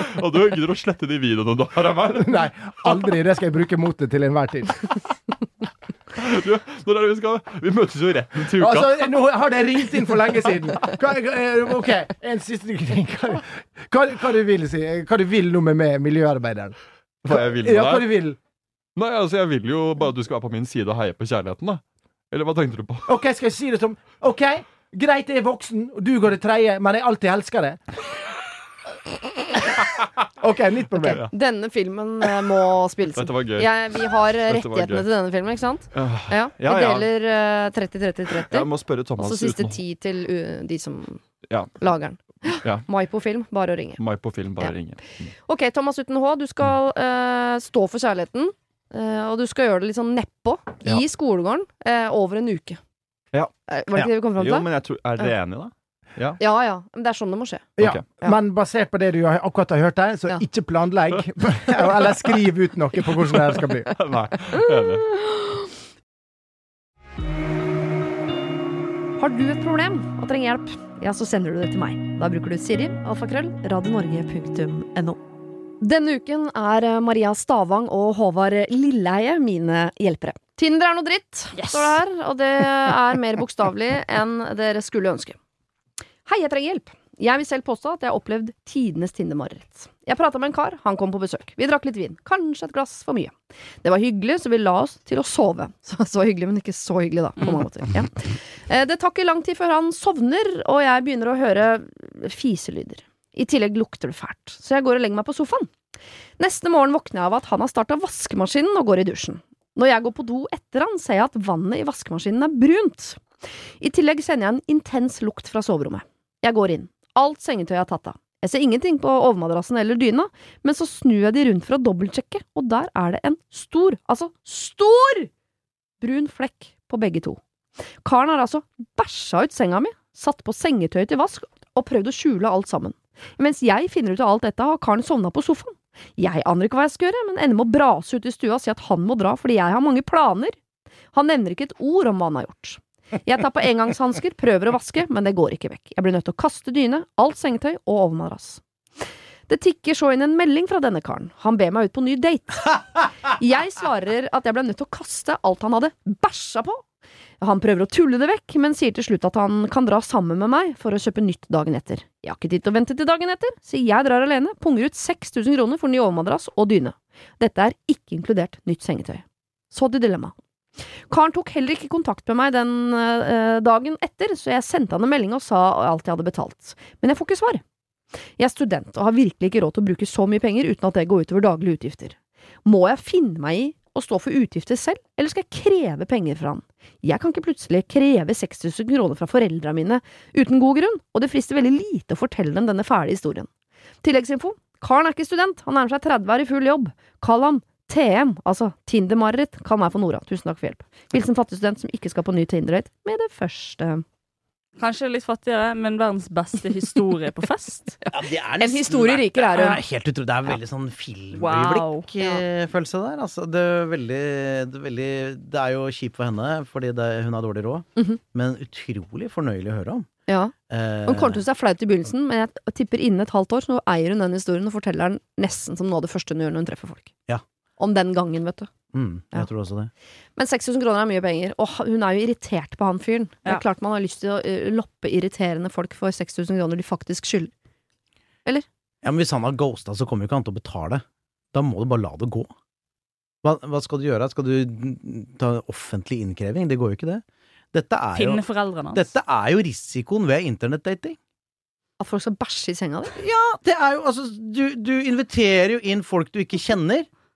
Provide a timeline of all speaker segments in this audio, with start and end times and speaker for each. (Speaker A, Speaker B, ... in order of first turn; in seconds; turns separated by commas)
Speaker A: 0.2-3.1, Speaker B: 2.2-4.9, Speaker A: 6.2-9.1, Speaker B: 8.6-18.4, Speaker A: 17.2-18.1, Speaker A: 19.0-23.1, Speaker B: 23.1-27.8, Speaker B: 30.4-31.2, Speaker C: 31.0-41.2, Speaker A: 33.1-35.1, Speaker A: 35.9-37.1, Speaker A: 38.3-39.8, Speaker C: 41.8-44.0, Speaker A: 42.5-42.9, Speaker A: 44.0-45.3, Speaker C: 45.4-52.8, Speaker C: 53.7-54.7, Speaker A: 54.2-56.4, Speaker C: 56.4-58.4, Speaker B: 57.8-63.9, Speaker A: 57.8-58.1, Speaker A: 63.9-65.1, Speaker C: 69.2-75.2, Speaker C: 75.8-85.4, Speaker D: 81.5-82.0, Speaker C: 86.3-105.7, Speaker D: 97.4-97.7, Speaker C: 106.4-113.2, Speaker C: 113.8-125.3, Speaker C: 126.0-127.4, Speaker C: 128.0-140.6, Speaker C: 141.1-148.6, Speaker C: 149.5-156.8, Speaker C: 157.4-170.4, Speaker C: 170.9-177.6, Speaker C: 178.4-193.5, Speaker C: 194.0-204.0, Speaker D: 204.8-208.1, Speaker E: 208.2-220.1, Speaker C: 208.6-209.8, Speaker D: 211.3-212.1, Speaker C: 220.3-220.5, Speaker E: 220.7-221.4, Speaker C: 221.1-227.1, Speaker C: 227.8-228.7, Speaker E: 228.9-229.9, Speaker C: 230.4-237.5, Speaker E: 239.0-242.5, Speaker E: 243.4-251.2, Speaker D: 248.1-249.1, Speaker C: 252.0-253.2, Speaker E: 253.2-257.1